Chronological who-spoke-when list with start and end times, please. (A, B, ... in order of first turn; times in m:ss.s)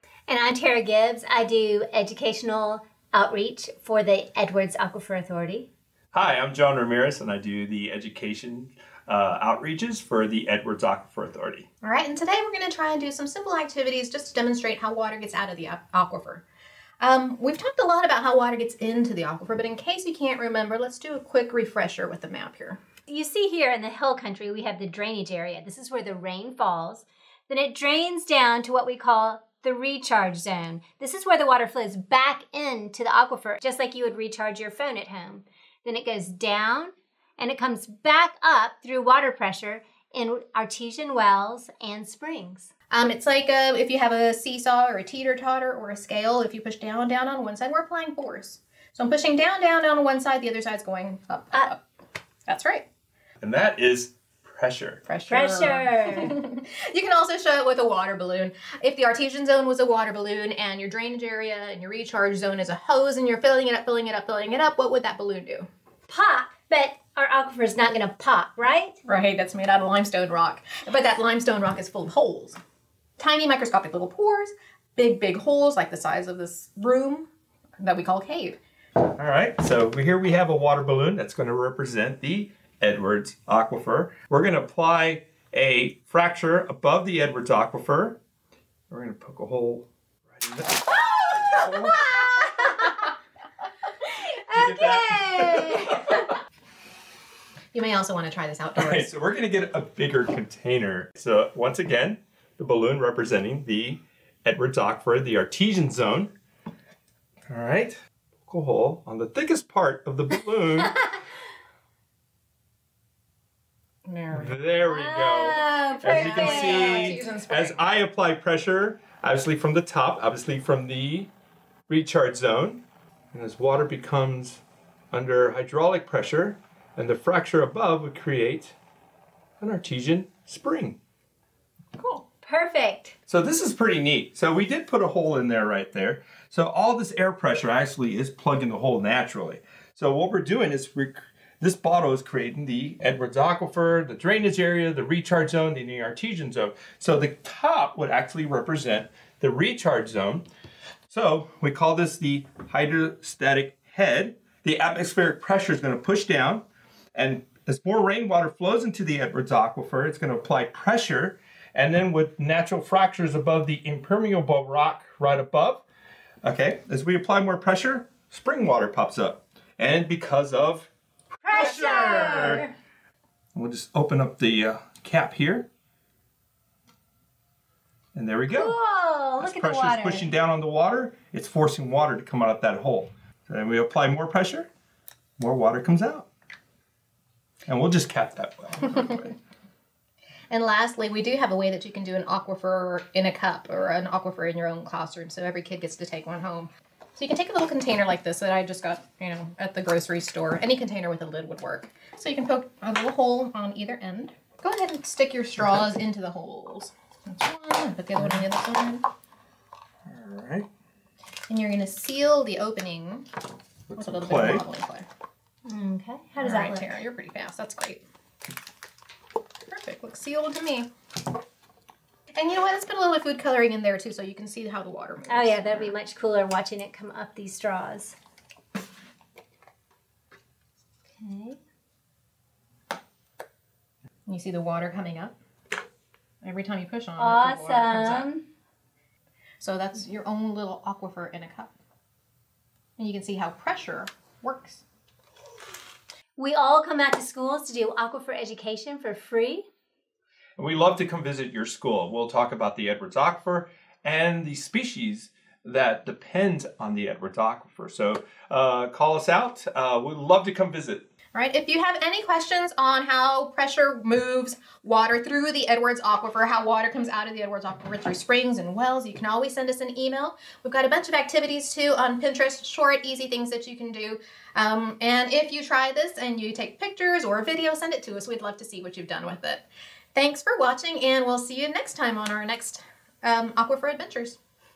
0:00.3-0:05.7 A
0:06.1-0:11.6 B
0:11.8-0:16.4 C
0:17.0-0:22.8 C
0:23.1-0:42.7 A
0:42.9-0:51.8 C
0:52.5-0:52.9 C
0:53.4-0:55.0 B
0:55.0-1:05.7 C
0:55.3-0:56.4 A
1:06.1-1:09.0 A
1:09.0-1:12.6 C
1:13.2-1:18.6 C
1:19.0-1:28.2 B
1:28.9-1:30.8 B
1:30.9-1:33.1 A
1:31.6-1:32.0 B
1:34.1-1:36.3 A
1:34.5-1:36.0 B
1:37.7-1:39.1 C
1:38.8-1:46.3 B
1:47.5-1:51.0 B
1:54.0-1:54.6 C
1:54.3-2:01.3 B
1:54.8-1:57.3 A
1:56.0-1:57.8 C
2:01.9-2:08.8 B
2:09.6-2:11.0 B
2:12.0-2:12.2 C
2:12.4-2:13.1 A
2:13.3-2:30.5 B
2:31.1-2:45.8 B
2:46.4-2:50.9 B
2:51.4-2:52.7 A
2:51.5-2:52.7 B
2:53.5-2:55.7 B
2:58.1-2:58.8 B
2:58.5-3:00.3 A
2:59.4-3:04.7 B
3:05.4-3:06.3 B
3:07.7-3:09.3 B
3:10.5-3:29.0 C
3:25.6-3:25.9 B
3:28.2-3:28.4 B
3:30.0-3:30.7 B
3:31.5-3:33.3 C
3:33.9-3:34.6 B
3:33.9-3:35.0 C
3:35.7-3:37.0 A
3:36.4-3:38.0 C
3:39.7-3:40.9 C
3:42.3-3:45.9 C
3:45.3-3:48.1 A
3:51.2-3:51.6 A
3:54.3-3:55.3 C
3:56.4-3:58.3 C
3:57.2-3:58.4 A
3:59.6-4:01.7 C
4:03.0-4:04.8 C
4:06.4-4:09.6 A
4:10.6-4:21.0 B
4:21.3-4:44.4 C